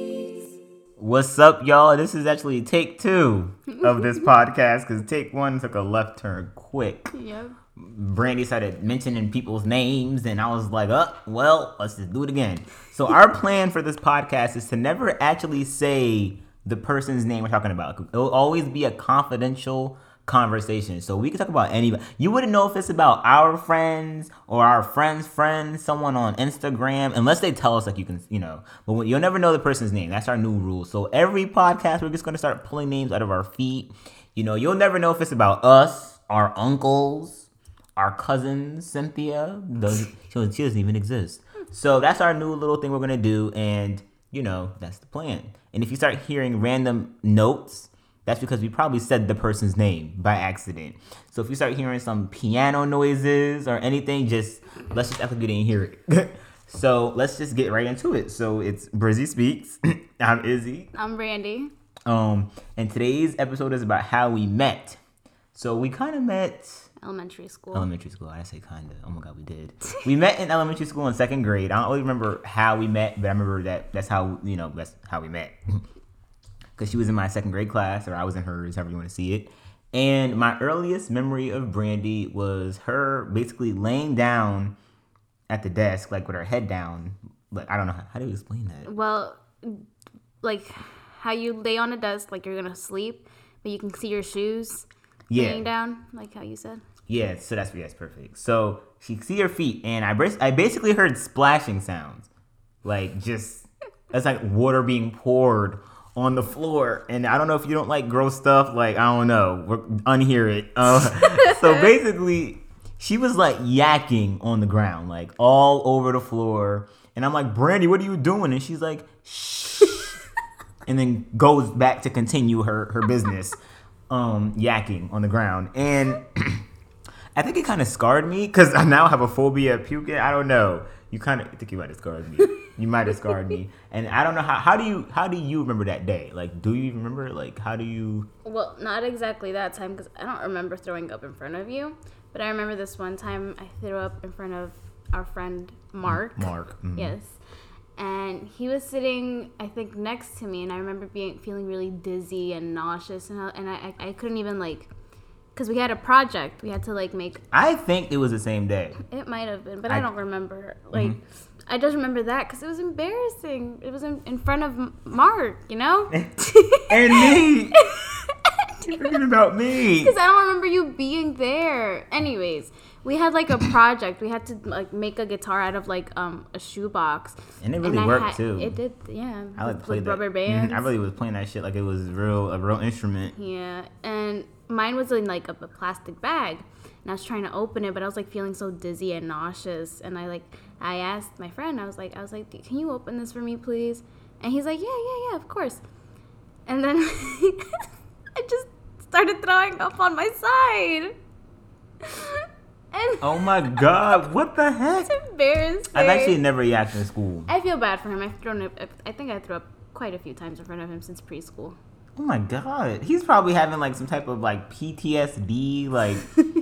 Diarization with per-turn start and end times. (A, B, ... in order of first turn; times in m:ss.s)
0:01.0-0:07.1 A
0:03.7-0:04.2 B
0:07.1-0:07.6 B
0:07.8-1:00.9 A
1:00.9-1:01.7 B
1:02.1-1:05.0 A
1:05.5-1:06.9 A
1:07.0-1:07.9 B
1:07.7-1:15.6 A
1:16.8-1:24.7 A
1:25.5-1:28.9 A
1:28.9-1:29.8 B
1:30.4-1:36.8 B
1:35.3-1:35.6 A
1:37.1-1:42.3 A
1:42.8-2:00.2 A
1:51.2-1:51.9 B
2:00.9-2:03.6 A
2:04.1-2:06.6 A
2:07.4-2:18.3 A
2:18.4-2:27.4 B
2:26.0-2:27.1 A
2:28.0-2:34.9 B
2:35.6-2:37.4 B
2:37.5-2:39.0 A
2:39.0-2:49.1 B
2:46.9-2:47.8 A
2:48.8-2:50.2 A
2:50.0-3:00.9 B
2:57.6-2:58.8 A
2:59.6-3:03.3 A
3:03.3-3:15.8 B
3:16.7-3:17.7 B
3:18.4-3:21.1 B
3:22.0-3:23.9 B
3:23.2-3:25.1 A
3:25.1-3:26.4 B
3:25.9-3:27.5 A
3:27.5-3:31.8 B
3:32.2-3:36.3 A